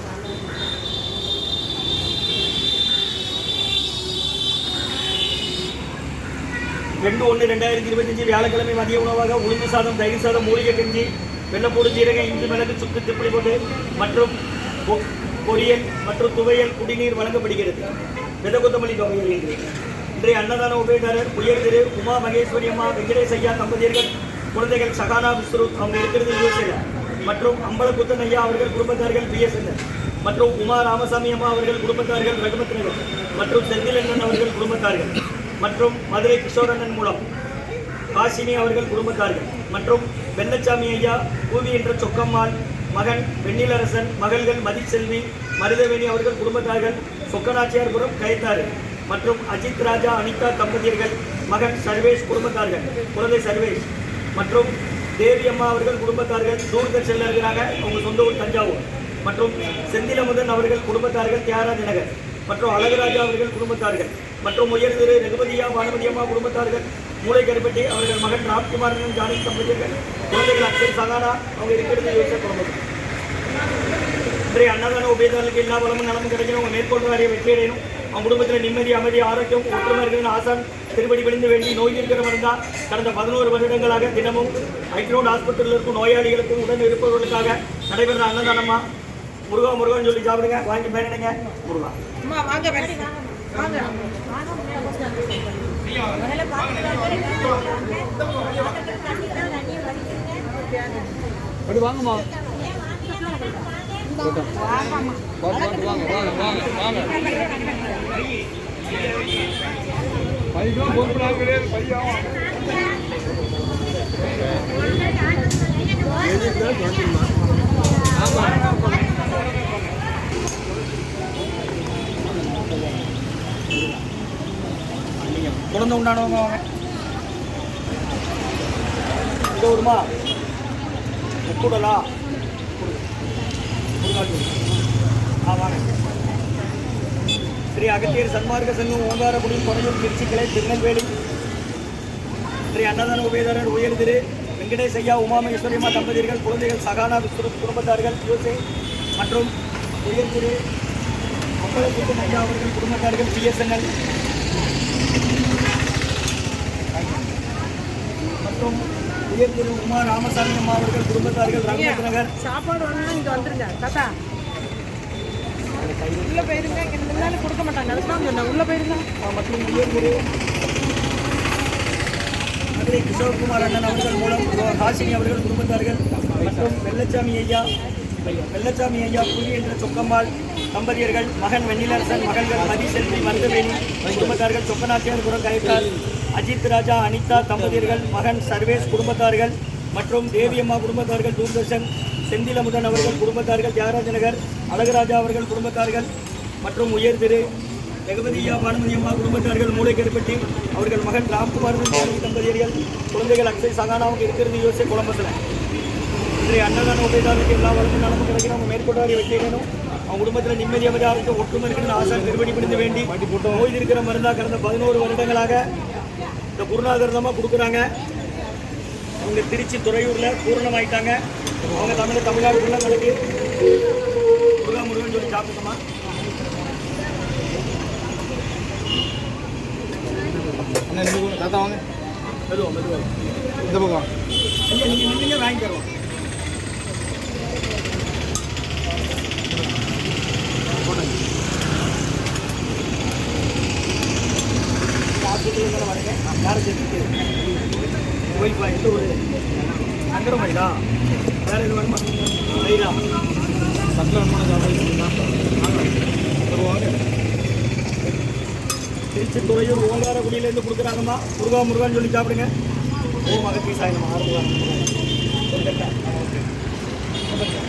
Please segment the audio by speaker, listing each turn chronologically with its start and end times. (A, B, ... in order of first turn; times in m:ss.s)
0:07.0-0:17.9 A
0:18.4-0:19.6 A
0:20.2-0:37.2 A
0:38.1-1:12.8 A
1:14.5-1:28.8 A
1:29.5-1:32.0 A
1:32.2-1:41.2 B
1:41.7-1:42.2 C
1:42.9-1:43.7 B
1:44.2-1:47.4 B
1:45.5-1:46.0 C
1:50.6-1:52.2 C
1:56.4-1:57.1 C
2:05.3-2:06.6 A
2:09.5-2:10.1 A
2:11.4-2:12.1 A
2:12.8-2:13.1 A
2:14.0-2:14.6 A
2:15.4-2:15.9 A
2:17.7-2:21.1 A
2:22.7-2:28.6 A
2:29.2-2:30.6 A
2:31.6-2:33.9 A
2:38.4-2:42.3 A
2:42.4-2:44.2 B
2:45.8-2:46.6 A
2:46.3-2:49.1 B
2:49.2-2:50.2 A
2:52.7-2:57.7 A
2:58.2-3:16.1 A
3:16.6-3:17.5 A
3:18.0-3:25.4 A
3:26.4-3:35.7 A
3:36.5-3:37.9 A
3:39.2-3:43.2 A
3:44.6-3:45.8 A
3:50.7-3:51.8 C
3:52.5-3:53.1 A
3:53.6-3:54.1 C
3:54.7-3:55.9 A
4:05.2-4:07.1 A
4:08.3-4:09.2 A
4:10.1-4:10.8 A
4:11.4-4:13.0 A
4:13.9-4:15.9 C
4:16.4-4:17.0 C
4:19.1-4:22.5 A
4:23.2-4:24.9 A
4:25.5-4:26.1 A